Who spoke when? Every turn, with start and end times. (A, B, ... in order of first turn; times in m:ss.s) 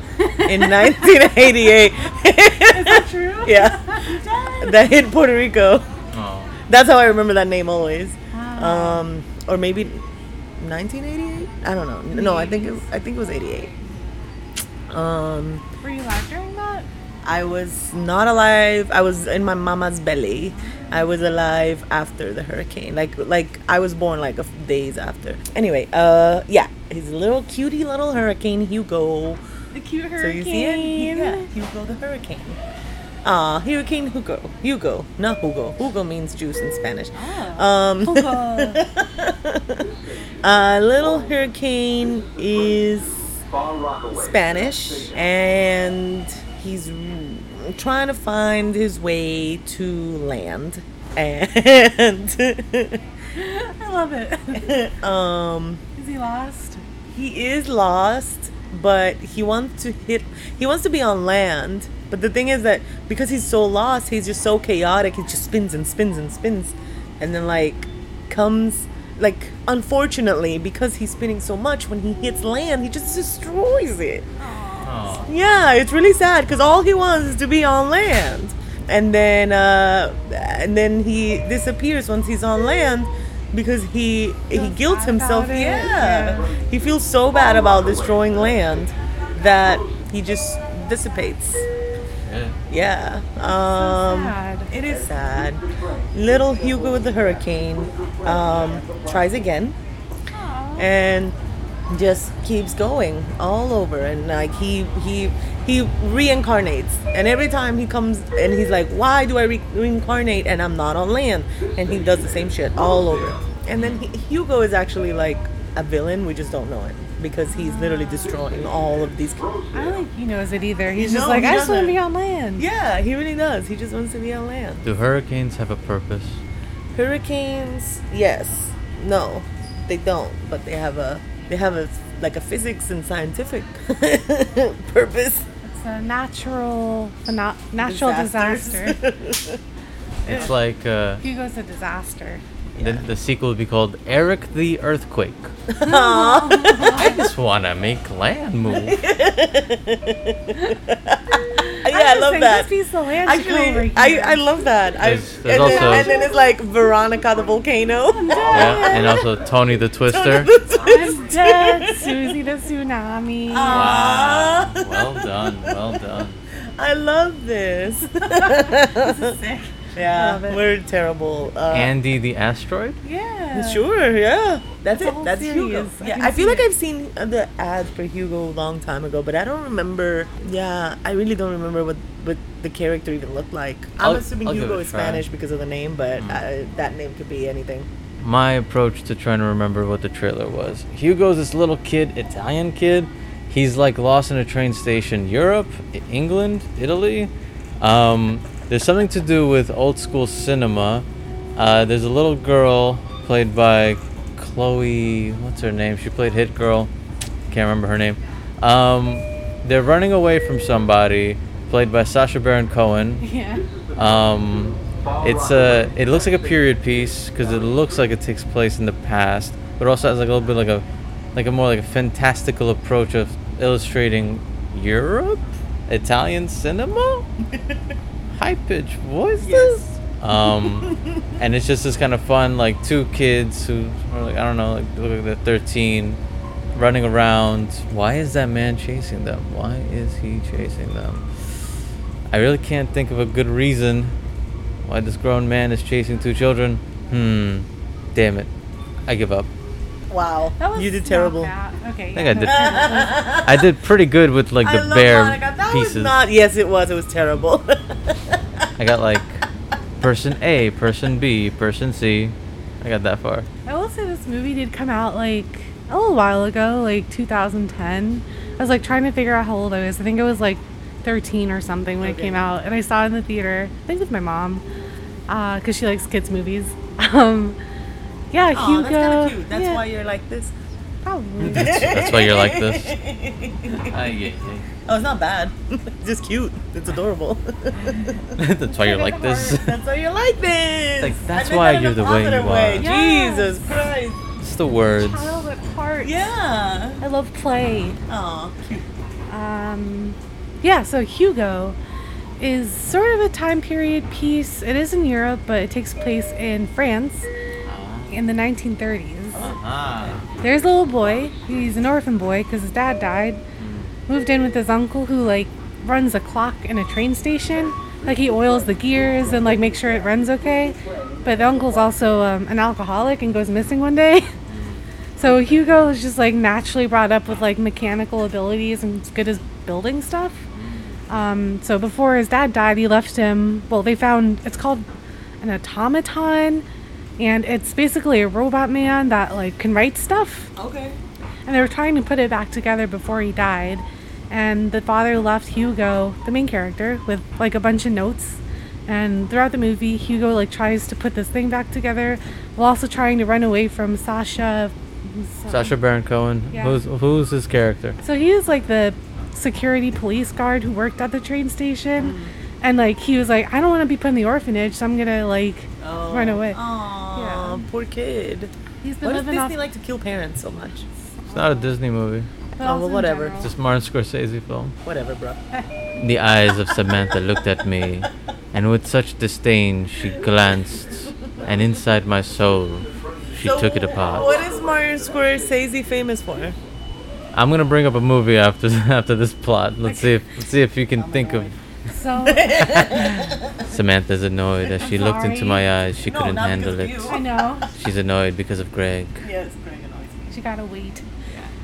0:00.2-0:01.2 A
0:00.5-0:05.9 B
0:02.7-0:04.8 A
0:06.1-0:06.6 C
0:06.7-0:10.0 B
0:08.3-0:09.1 A
0:10.6-0:13.7 B
0:12.1-0:12.8 A
0:14.9-0:15.6 B
0:15.8-0:16.9 A
0:17.2-0:29.4 B
0:20.5-0:21.1 A
0:29.7-0:31.5 A
0:30.2-0:32.6 B
0:33.2-0:39.9 B
0:37.1-0:38.8 A
0:40.4-0:43.4 B
0:44.1-0:53.0 B
0:53.4-0:54.8 A
0:54.5-0:55.8 B
0:56.0-0:56.8 A
0:57.1-1:14.3 B
1:14.4-1:15.3 A
1:14.8-1:15.3 C
1:15.3-1:31.7 B
1:24.5-1:26.5 A
1:32.3-1:32.6 C
1:32.7-1:39.8 B
1:33.5-1:34.7 A
1:40.3-1:40.9 A
1:40.8-1:41.4 B
1:41.9-1:59.6 B
1:53.8-1:54.0 C
1:57.5-1:58.3 A
1:59.7-2:02.6 A
2:00.9-2:02.0 B
2:02.6-2:04.9 B
2:04.8-2:06.4 C
2:06.9-2:15.5 B
2:15.6-2:19.0 A
2:17.8-2:19.6 B
2:20.2-2:20.5 B
2:20.3-2:21.2 C
2:21.2-2:22.4 A
2:22.8-2:23.1 B
2:22.8-2:25.5 C
2:25.7-2:27.1 B
2:25.8-2:27.2 A
2:26.9-2:29.0 C
2:28.7-2:32.7 B
2:31.6-2:34.4 A
2:33.2-2:39.3 B
2:35.0-2:36.1 C
2:35.7-2:36.1 A
2:38.1-2:39.2 A
2:38.5-2:40.5 C
2:40.1-2:42.3 B
2:40.8-2:44.0 A
2:43.5-2:46.0 B
2:43.7-2:46.4 C
2:46.8-2:51.9 B
2:48.2-2:50.6 A
2:51.7-2:53.0 C
2:53.0-2:53.9 A
2:53.5-3:07.9 B
2:54.9-2:56.7 A
3:04.0-3:05.2 C
3:08.2-3:21.0 C
3:21.6-3:26.9 C
3:27.5-3:33.2 C
3:33.2-3:33.6 A
3:34.0-3:47.3 C
3:47.5-3:47.8 B
3:48.3-3:56.2 C
3:49.4-3:49.8 B
3:50.5-3:51.4 B
3:56.8-4:01.4 C
4:02.3-4:04.1 C
4:04.8-4:08.5 C
4:09.1-4:09.5 C
4:10.1-4:11.5 B
4:10.6-4:13.2 A
4:12.2-4:16.2 C
4:12.4-4:13.7 B
4:14.6-4:18.7 B
4:18.8-4:19.4 C
4:20.0-4:23.5 C
4:23.7-4:34.6 A
4:32.0-4:32.4 B
4:35.3-4:37.6 A
4:38.3-4:39.8 A
4:38.5-4:40.5 B
4:41.0-4:41.8 A
4:41.4-4:43.0 C
4:41.5-4:44.0 B
4:43.7-4:44.6 C
4:44.9-4:48.4 B
4:48.3-4:49.8 C
4:48.7-4:49.6 A
4:49.4-4:54.2 B
4:51.0-4:52.9 C
4:52.8-4:53.6 A
4:54.4-4:55.4 C
4:55.0-4:56.2 A
4:56.0-4:57.0 B
4:57.0-4:58.0 A
4:58.1-4:58.9 B
4:59.3-5:01.8 A
5:02.4-5:07.3 A
5:07.6-5:08.1 C
5:08.1-5:09.5 A
5:09.4-5:10.2 B
5:09.4-5:10.2 C
5:10.4-5:13.4 A
5:13.6-5:13.9 C
5:14.1-5:24.3 A
5:24.5-5:24.8 C
5:25.2-5:30.4 A
5:30.5-5:30.9 C
5:31.1-5:34.9 A
5:35.4-5:36.6 A
5:37.2-5:40.5 A
5:40.6-5:41.0 B
5:41.5-5:55.7 A
5:55.5-5:58.0 C
5:56.5-5:56.8 A
5:58.0-6:06.6 A
6:02.0-6:02.3 B
6:05.8-6:10.9 B
6:07.1-6:07.6 A
6:08.8-6:09.6 A
6:11.2-6:11.7 A
6:11.3-6:12.3 C
6:12.6-6:13.5 A
6:12.6-6:13.4 B
6:13.4-6:14.7 C
6:14.8-6:15.4 B
6:16.0-6:24.3 C
6:23.4-6:26.6 B
6:27.3-6:31.5 C
6:29.9-6:30.2 A
6:31.0-6:31.6 B
6:31.9-6:32.9 A
6:32.2-6:33.7 B
6:32.8-6:37.2 C
6:34.8-6:35.7 A
6:36.0-6:37.2 B
6:37.1-6:37.7 A
6:37.7-6:39.2 C
6:39.2-6:40.3 B
6:40.3-6:41.0 A